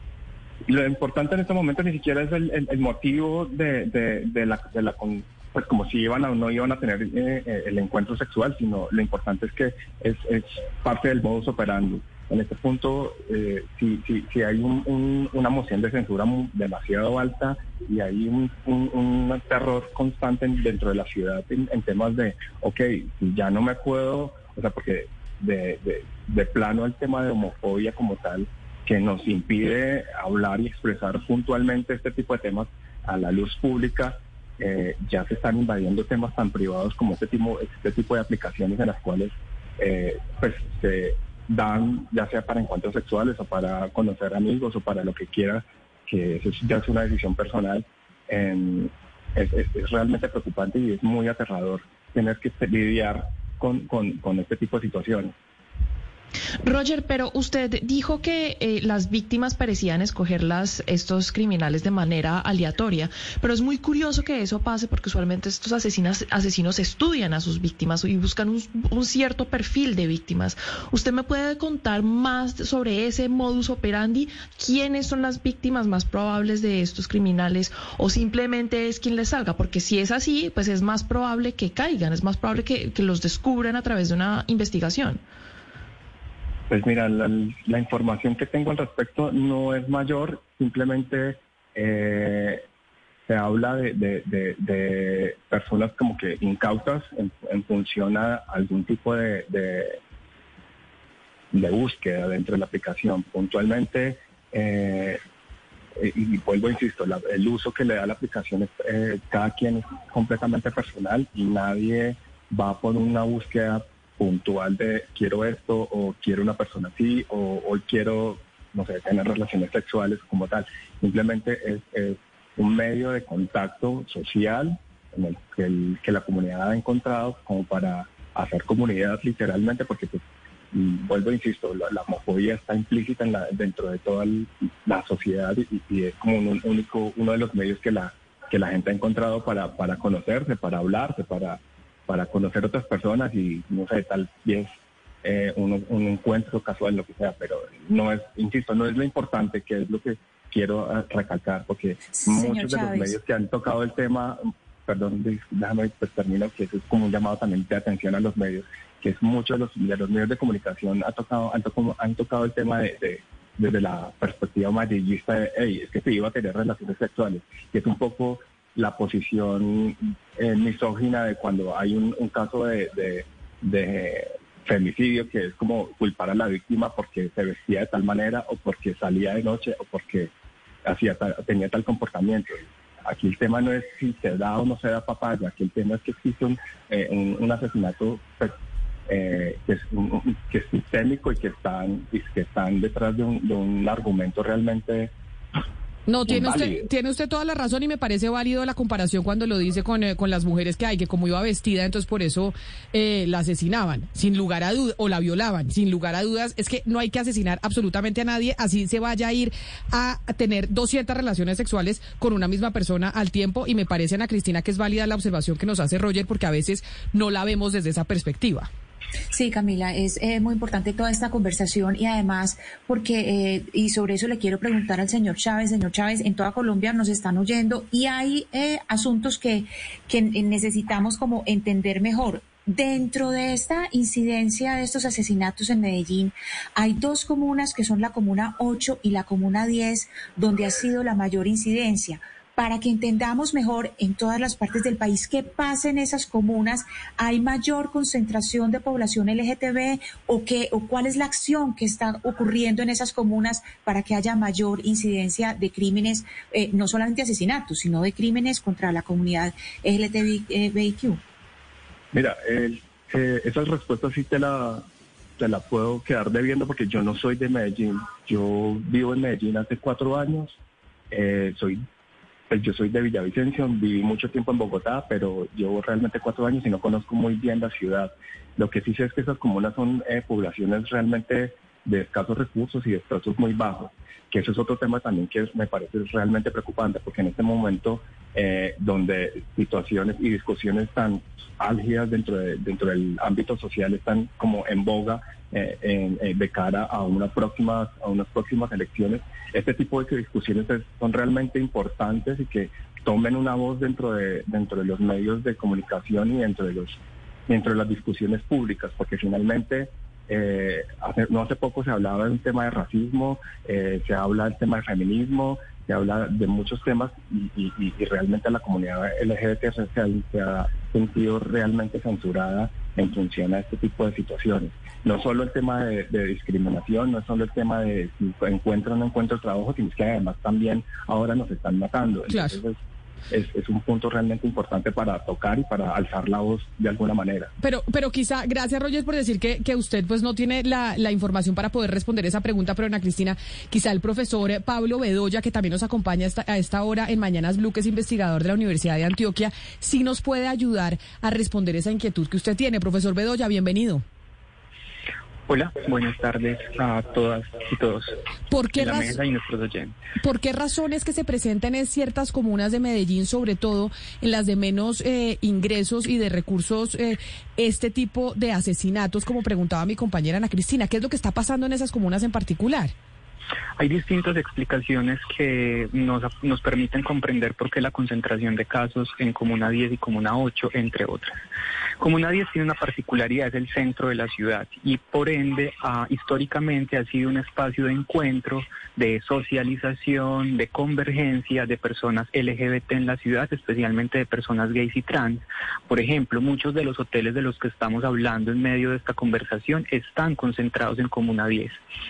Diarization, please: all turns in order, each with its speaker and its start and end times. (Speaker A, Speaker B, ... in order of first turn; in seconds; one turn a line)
Speaker A: 0.7-55.3
Speaker B: 56.6-85.2
Speaker A: 86.7-92.6
Speaker A: 93.3-100.0
Speaker A: 101.5-105.2
Speaker A: 106.0-180.3
Speaker C: 152.1-153.2
Speaker A: 180.8-188.6
Speaker A: 189.1-195.1
Speaker D: 196.1-218.7
Speaker A: 196.3-196.8
Speaker C: 219.3-261.2
Speaker A: 262.1-264.9
Speaker A: 265.4-270.6
Speaker A: 271.1-271.8
Speaker A: 272.5-332.8
Speaker D: 332.3-332.6
Speaker A: 333.3-337.5
Speaker D: 337.6-354.0
Speaker E: 355.5-358.1
Speaker D: 358.5-359.2
Speaker E: 358.7-360.0
Speaker D: 360.2-372.9
Speaker E: 373.8-381.4
Speaker E: 382.0-401.8